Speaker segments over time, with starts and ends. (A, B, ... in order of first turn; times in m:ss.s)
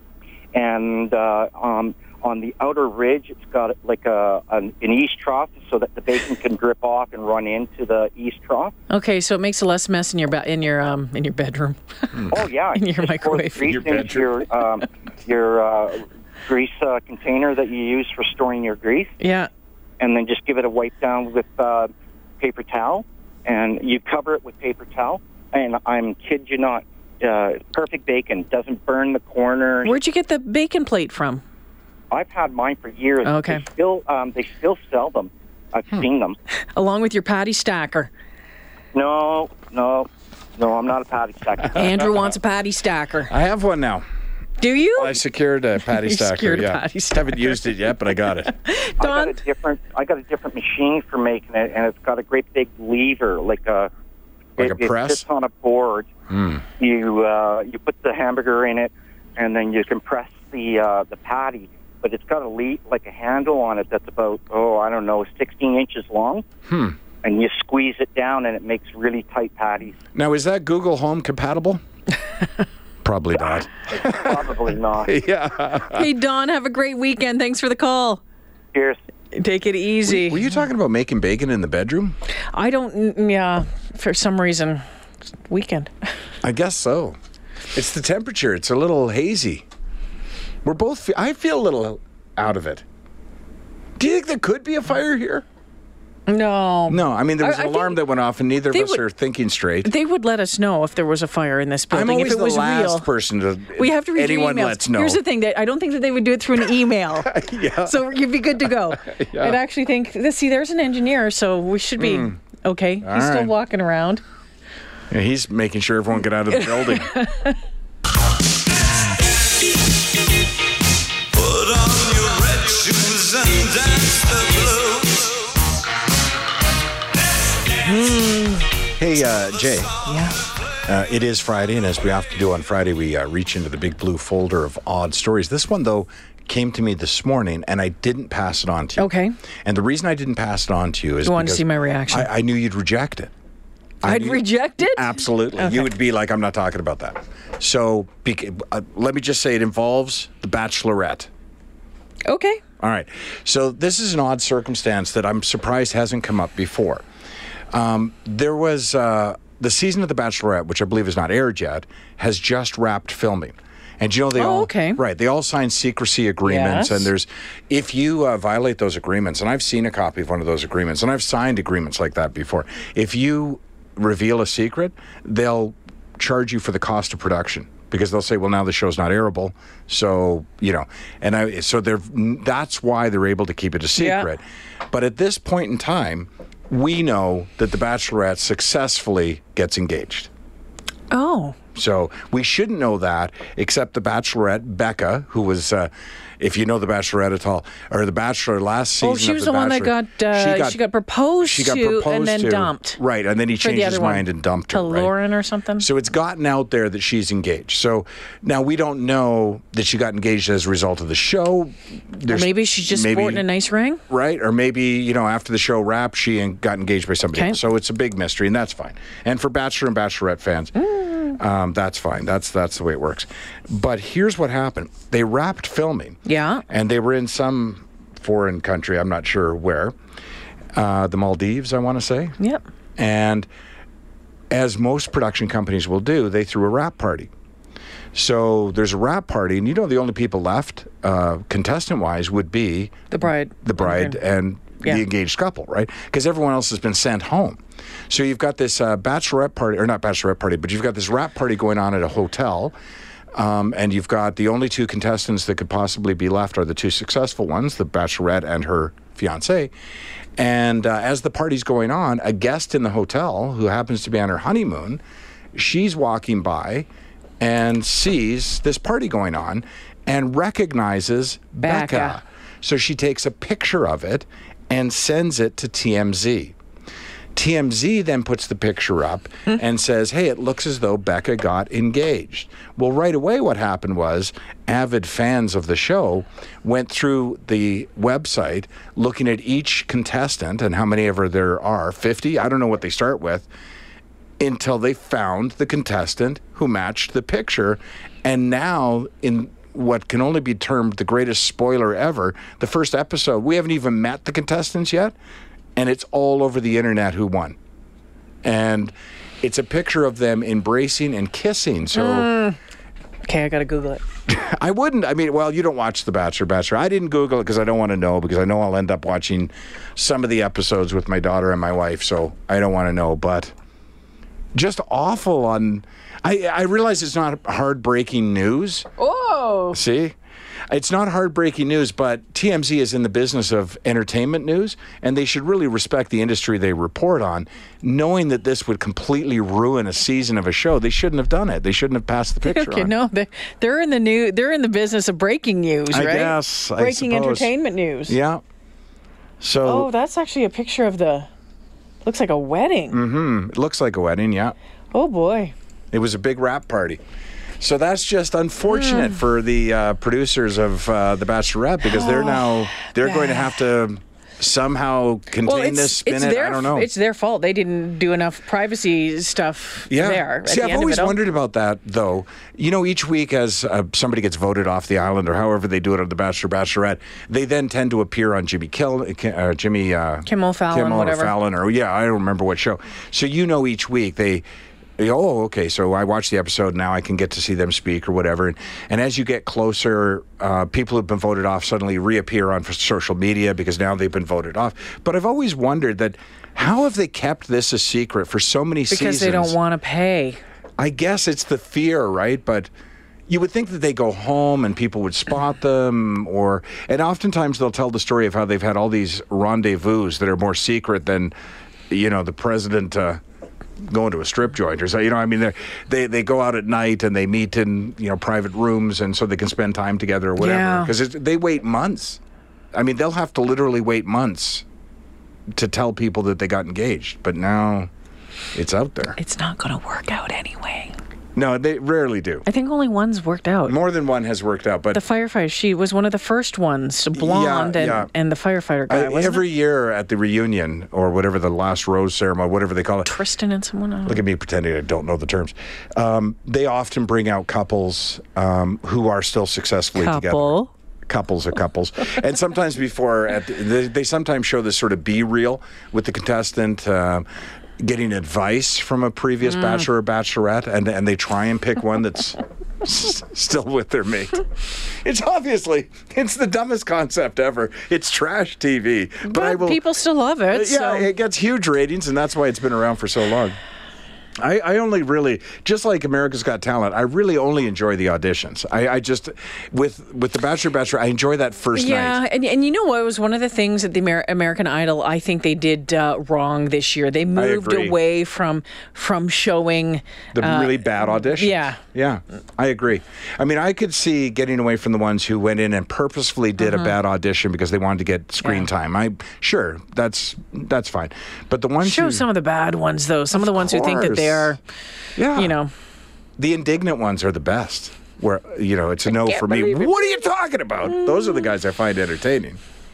0:00.5-0:08.7 A
0:08.9-0:13.8 B
0:12.3-0:19.1 A
0:13.6-0:14.3 C
0:19.2-0:19.5 B
0:20.0-0:30.0 A
0:29.8-0:31.4 B
0:32.1-0:36.4 A
0:33.2-0:33.6 B
0:36.7-0:38.1 B
0:38.9-0:41.9 A
0:41.7-0:43.3 B
0:43.3-0:44.0 C
0:44.6-0:45.2 B
0:45.0-0:48.5 C
0:45.8-0:47.6 B
0:48.3-0:49.4 B
0:49.0-0:53.9 A
0:54.6-0:56.1 A
0:54.6-0:55.2 C
0:56.3-0:56.6 C
0:56.8-1:06.4 A
1:06.7-1:07.0 C
1:07.2-1:09.9 A
1:10.1-1:11.8 C
1:13.0-1:14.4 C
1:13.9-1:15.1 A
1:15.0-1:16.1 C
1:15.9-1:18.2 B
1:18.7-1:19.0 A
1:19.3-1:20.5 B
1:20.0-1:22.1 C
1:22.5-1:24.8 B
1:25.5-1:25.9 B
1:26.4-1:27.2 C
1:27.7-1:29.6 C
1:30.6-1:32.8 C
1:34.0-1:35.4 C
1:36.3-1:38.0 B
1:36.9-1:39.9 C
1:38.7-1:39.0 B
1:39.8-1:43.1 B
1:41.9-1:45.2 C
1:43.8-1:54.2 B
1:47.2-1:49.6 C
1:52.0-1:52.4 C
1:53.0-1:53.5 C
1:55.1-1:57.1 C
1:56.5-1:57.6 B
2:01.5-2:05.1 D
2:07.8-2:08.7 B
2:09.0-2:09.9 C
2:10.0-2:10.3 B
2:10.9-2:19.1 C
2:19.0-2:19.3 B
2:19.6-2:23.3 C
2:21.2-2:22.3 B
2:24.0-2:31.3 C
2:24.0-2:25.9 B
2:32.2-2:32.6 B
2:32.8-2:37.0 C
2:37.7-3:10.3 C
2:44.4-2:45.0 B
2:46.4-2:47.1 B
3:04.0-3:04.3 B
3:11.1-3:11.6 B
3:11.7-3:20.8 C
3:19.0-3:23.0 B
3:21.4-3:25.1 C
3:23.6-3:25.9 B
3:25.8-3:33.4 C
3:32.3-3:34.0 B
3:34.1-3:40.7 C
3:37.3-3:37.6 B
3:40.9-3:41.3 B
3:41.3-3:46.2 C
3:46.2-3:46.6 B
3:46.7-3:49.9 C
3:50.7-3:52.3 C
3:53.0-3:53.5 C
3:54.5-3:57.3 C
3:58.1-4:03.0 C
4:03.1-4:04.2 B
4:03.6-4:12.8 C
4:13.4-4:19.7 C
4:20.4-4:25.0 C
4:25.5-4:26.9 C
4:27.4-4:36.5 C
4:31.6-4:32.2 B
4:37.3-4:53.5 C
4:54.4-5:05.1 C
5:05.8-5:07.6 C
5:08.4-5:12.3 C
5:11.9-5:12.6 B
5:13.2-5:14.0 B
5:14.3-5:23.5 C
5:24.5-5:28.9 C
5:29.0-5:29.8 B
5:29.7-5:30.2 C
5:30.7-5:42.9 C
5:42.4-5:48.2 B
5:45.9-5:47.5 C
5:48.1-5:48.4 C
5:49.4-5:49.9 C
5:49.6-5:51.3 B
5:52.0-5:53.0 B
5:52.9-5:54.6 C
5:54.9-5:55.5 B
5:55.9-5:57.0 C
5:57.6-6:06.9 C
5:58.7-5:59.1 B
6:01.8-6:03.5 B
6:05.4-6:11.2 B
6:09.9-6:24.4 C
6:20.2-6:21.3 B
6:25.0-6:39.6 C
6:38.9-6:40.4 B
6:40.8-6:42.7 C
6:43.3-6:51.3 C
6:51.9-6:53.2 C
6:53.9-7:02.2 C
7:00.4-7:00.9 B
7:02.7-7:04.6 C
7:05.5-7:07.9 C
7:08.5-7:09.2 C
7:09.2-7:11.0 B
7:11.3-7:12.4 C
7:12.4-7:13.8 B
7:13.6-7:15.0 C
7:14.9-7:19.4 B
7:17.1-7:18.1 C
7:18.9-7:23.1 C
7:23.0-7:24.2 B
7:24.0-7:30.6 C
7:30.0-7:30.7 B
7:31.1-7:37.2 C
7:37.8-7:44.4 C
7:45.0-7:49.8 C
7:49.2-7:51.1 B
7:50.5-7:53.6 C
7:54.4-8:02.2 C
8:01.7-8:11.8 B
8:07.3-8:08.0 C
8:10.3-8:22.2 C
8:16.6-8:16.9 B
8:21.8-8:24.6 B
8:23.3-8:24.6 C
8:25.2-8:25.6 C
8:25.3-8:25.7 B
8:26.4-8:32.6 C
8:29.1-8:30.2 B
8:30.8-8:31.5 B